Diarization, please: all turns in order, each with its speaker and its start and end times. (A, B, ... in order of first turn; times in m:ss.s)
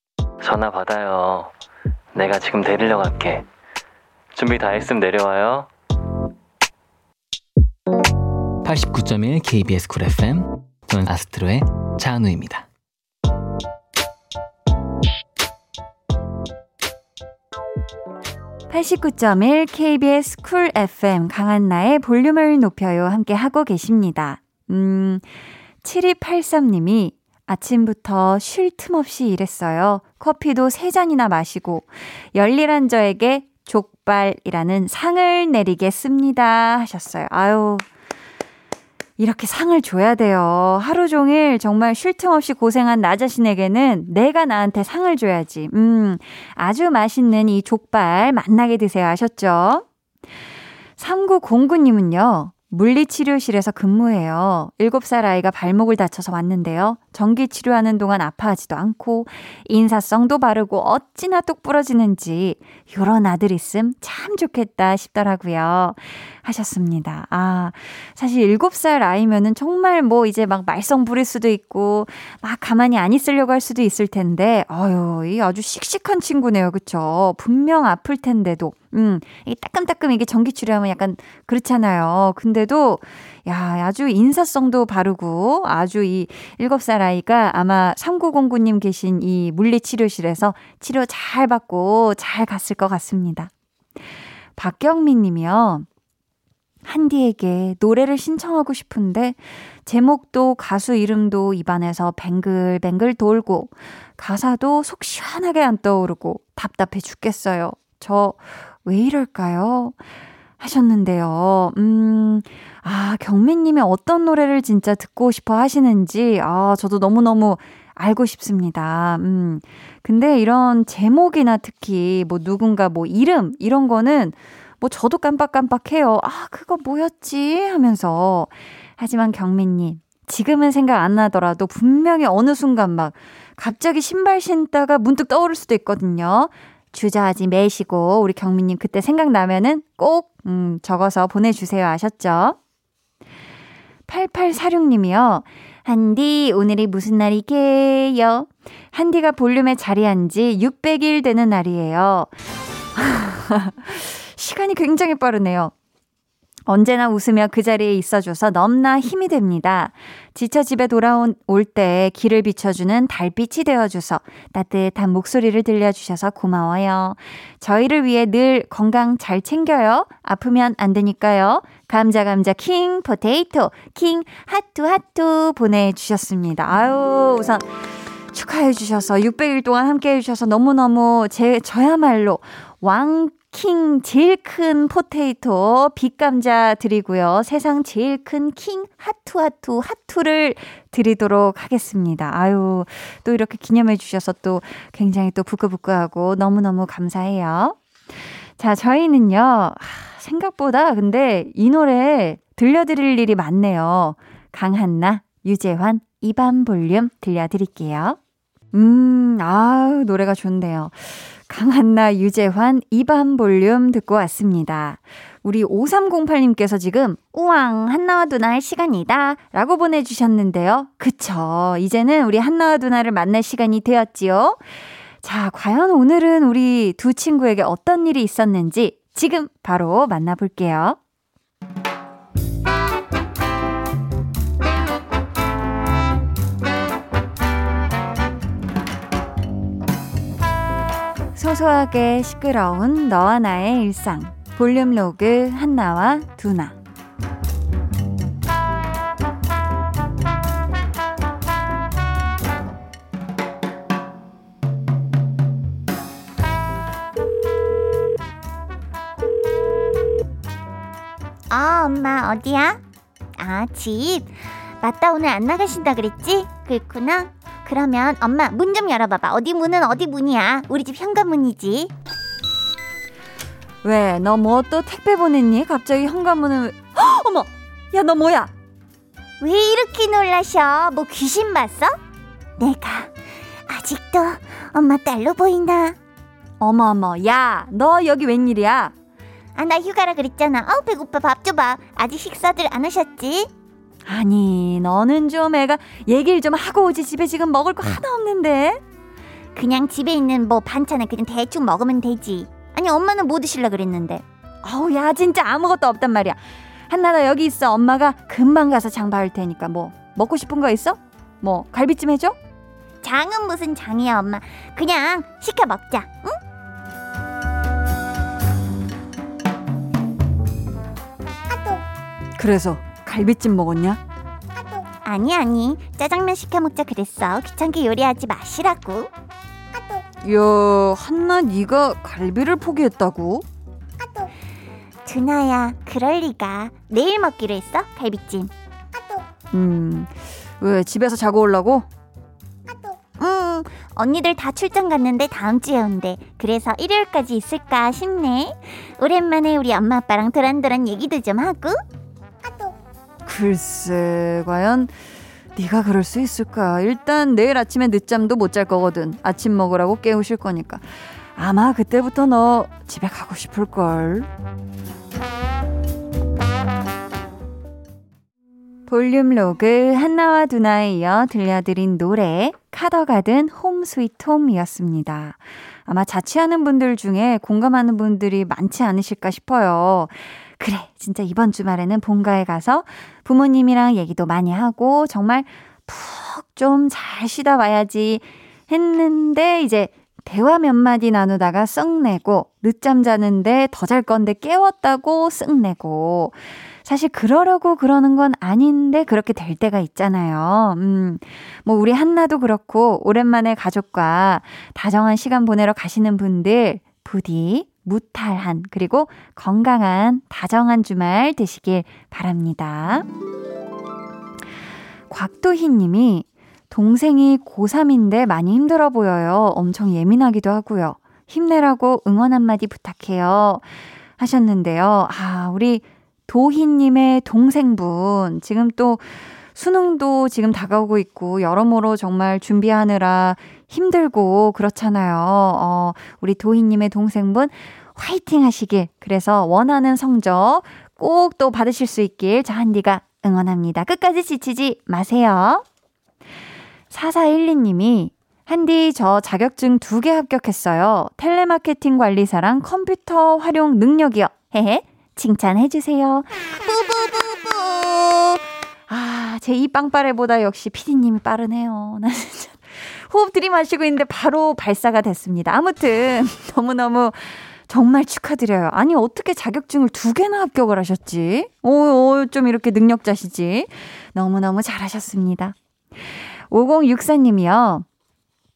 0:00.4-0:01.5 A
0:02.1-0:03.4 A
0:04.3-0:05.7 A
0:08.6-0:12.6 B
0:18.7-0:25.2 C
0:25.8-0:37.8 C
0:39.2-0:49.8 C
0:51.0-1:33.5 C
1:34.6-1:35.8 C
1:36.8-1:50.0 C
1:50.6-2:22.6 C
2:24.1-2:32.3 C
2:32.9-2:35.7 C
2:36.7-2:57.6 C
2:58.3-3:17.8 C
3:18.6-3:28.2 C
3:28.7-3:44.6 C
3:45.2-3:51.0 C
4:01.3-4:06.8 C
4:21.5-4:22.8 D
4:23.3-4:31.9 D
4:33.8-4:38.5 C
4:39.4-4:42.0 D
4:42.6-4:43.1 D
4:43.7-4:46.0 D
4:46.6-4:48.9 C
4:49.5-4:53.5 D
4:54.0-4:58.8 C
4:59.5-5:04.2 D
5:04.6-5:12.4 C
5:13.0-5:16.4 D
5:22.4-5:24.0 C
5:25.0-5:29.1 D
5:30.2-5:33.4 C
5:35.0-5:38.5 D
5:39.5-5:41.8 C
5:43.2-5:51.8 D
5:53.2-5:54.9 C
5:55.6-6:04.3 C
6:08.9-6:53.0 C
6:55.1-7:03.6 C
7:04.2-7:25.6 C
7:26.9-7:55.6 C
7:56.5-7:57.8 C